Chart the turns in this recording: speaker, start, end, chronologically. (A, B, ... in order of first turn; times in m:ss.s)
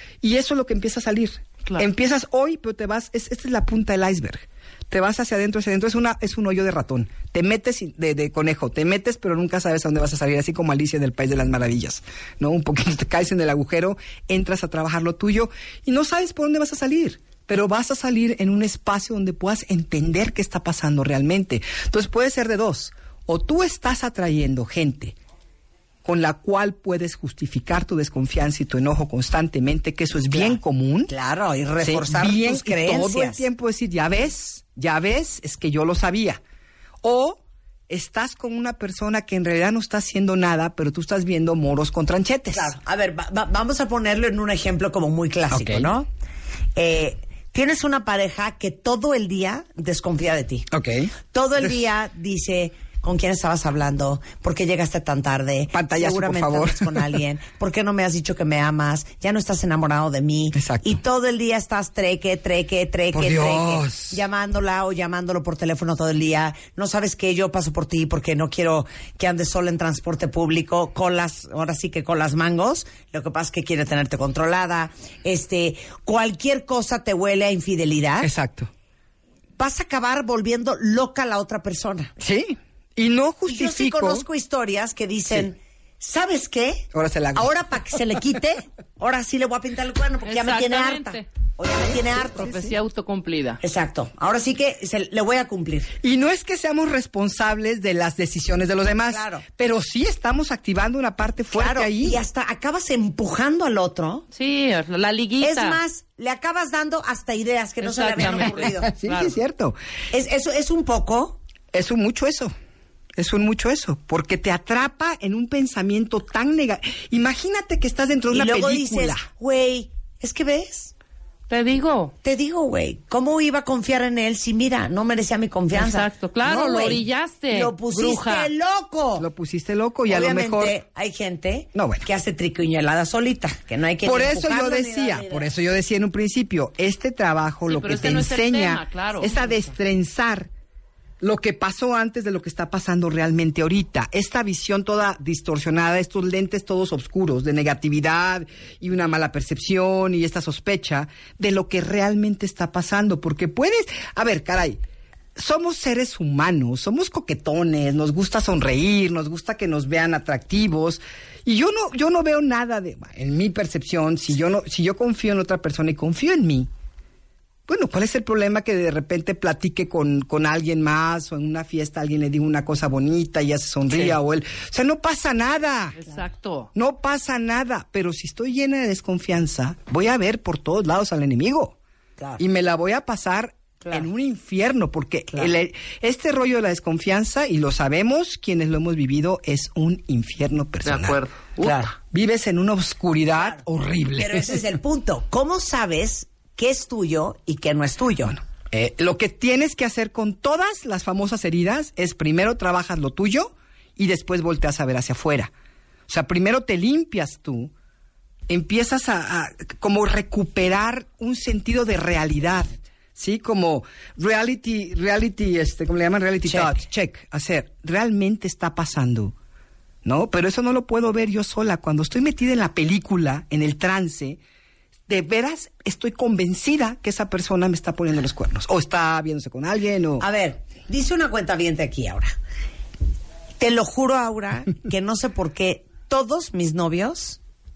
0:00.2-0:25.2 A
0:26.0-0:31.1 A
0:30.3-0:33.4 B
0:31.8-0:36.4 A
0:37.0-0:42.8 A
0:42.5-0:46.1 B
0:45.5-0:45.9 A
0:46.8-0:50.7 B
0:50.7-0:51.1 A
0:51.3-1:18.3 B
0:55.7-0:57.2 A
1:00.5-1:01.0 A
1:03.1-1:04.2 A
1:18.2-1:18.7 A
1:19.6-1:22.1 B
1:22.2-1:24.2 A
1:23.5-1:32.7 B
1:26.9-1:27.6 A
1:30.2-1:31.3 C
1:32.4-1:33.6 C
1:33.6-1:35.9 B
1:36.0-1:42.2 A
1:39.1-1:39.4 B
1:41.5-1:44.2 B
1:44.3-1:45.8 C
1:45.4-1:48.9 B
1:47.8-1:49.4 C
1:48.8-1:49.8 A
1:50.1-1:51.4 B
1:51.7-1:52.5 A
1:53.2-1:59.2 A
1:58.3-2:00.9 B
2:01.5-2:02.1 C
2:02.2-2:09.3 B
2:05.7-2:08.5 C
2:09.2-2:10.8 A
2:10.1-2:15.5 B
2:11.8-2:12.1 A
2:14.0-2:20.5 A
2:17.7-2:19.7 C
2:21.2-2:34.8 A
2:35.4-2:46.7 A
2:47.7-2:56.0 A
2:56.0-2:56.7 C
2:56.8-3:01.8 A
3:02.2-3:02.4 B
3:02.4-3:11.2 A
3:03.8-3:04.1 B
3:10.8-3:11.9 C
3:11.6-3:11.9 B
3:12.0-3:14.6 A
3:13.3-3:13.6 B
3:14.2-3:18.4 B
3:18.7-3:25.5 A
3:26.1-3:27.7 A
3:28.5-3:39.3 A
3:36.4-3:36.8 B
3:40.0-3:44.4 A
3:45.1-3:50.2 A
3:50.2-3:52.4 B
3:53.6-3:57.4 B